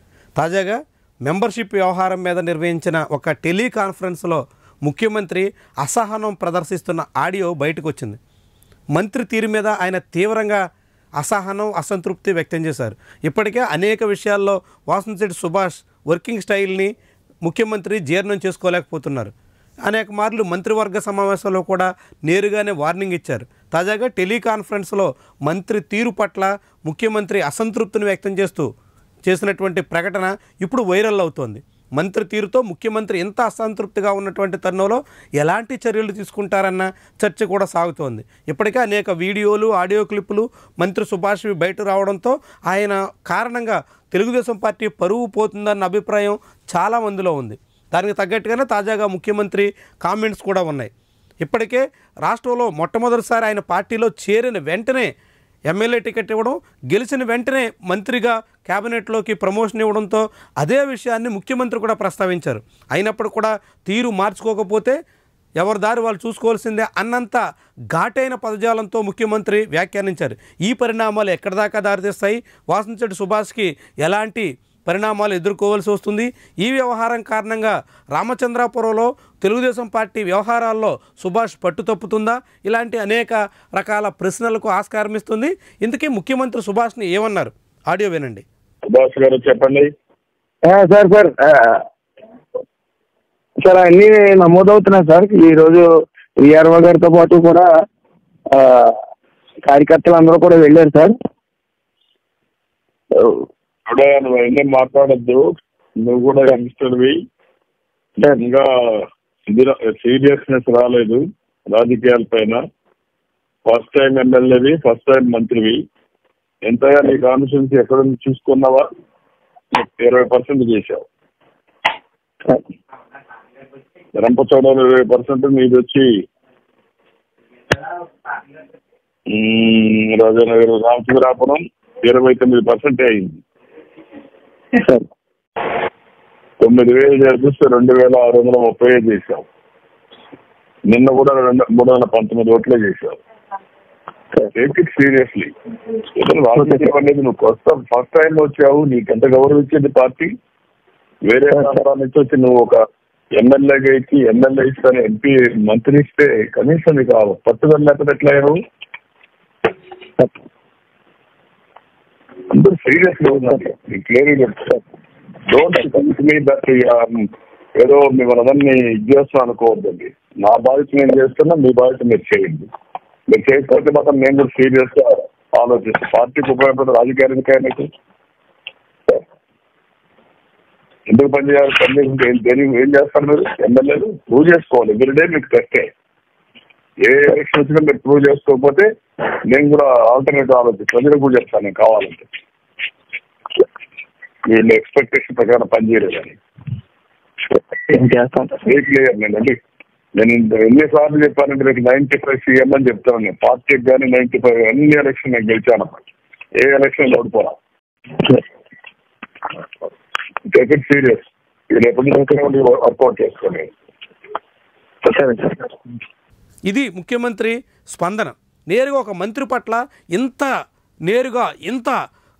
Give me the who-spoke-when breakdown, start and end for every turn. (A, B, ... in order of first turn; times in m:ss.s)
0:00.4-0:08.2 A
0:08.9-0:10.6 A
0:11.2-0:16.9 A
0:17.4-0:19.3 A
0:19.8-0:28.7 A
0:29.2-0:50.9 A
0:51.4-0:55.1 A
0:55.7-1:05.0 A
1:05.6-1:07.4 A
1:07.9-1:28.4 A
1:28.8-1:29.9 B
1:30.6-1:31.8 C
1:33.6-1:35.9 C
1:36.4-1:37.7 C
1:38.5-1:39.0 C
1:39.6-1:41.1 C
1:43.1-1:43.4 C
1:43.9-1:47.2 B
1:48.2-1:52.6 B
1:53.6-1:55.8 B
1:56.6-1:58.9 B
1:59.7-2:01.0 B
2:04.2-2:06.2 B
2:09.3-2:13.4 B
2:14.7-2:15.0 C
2:16.6-2:19.5 B
2:20.9-2:23.2 B
2:24.5-2:30.3 B
2:31.2-2:32.8 B
2:33.4-2:38.6 B
2:42.5-2:44.8 B
2:45.5-2:52.7 B
2:53.3-2:57.9 B
3:01.1-3:05.9 B
3:07.0-3:08.9 B
3:09.4-3:12.2 B
3:14.4-3:16.4 B
3:17.5-3:18.6 C
3:18.6-3:19.6 B
3:20.2-3:26.0 B
3:26.6-3:27.6 B
3:30.5-3:33.7 B
3:35.0-3:35.7 C
3:36.7-3:40.5 A
3:41.1-3:41.9 A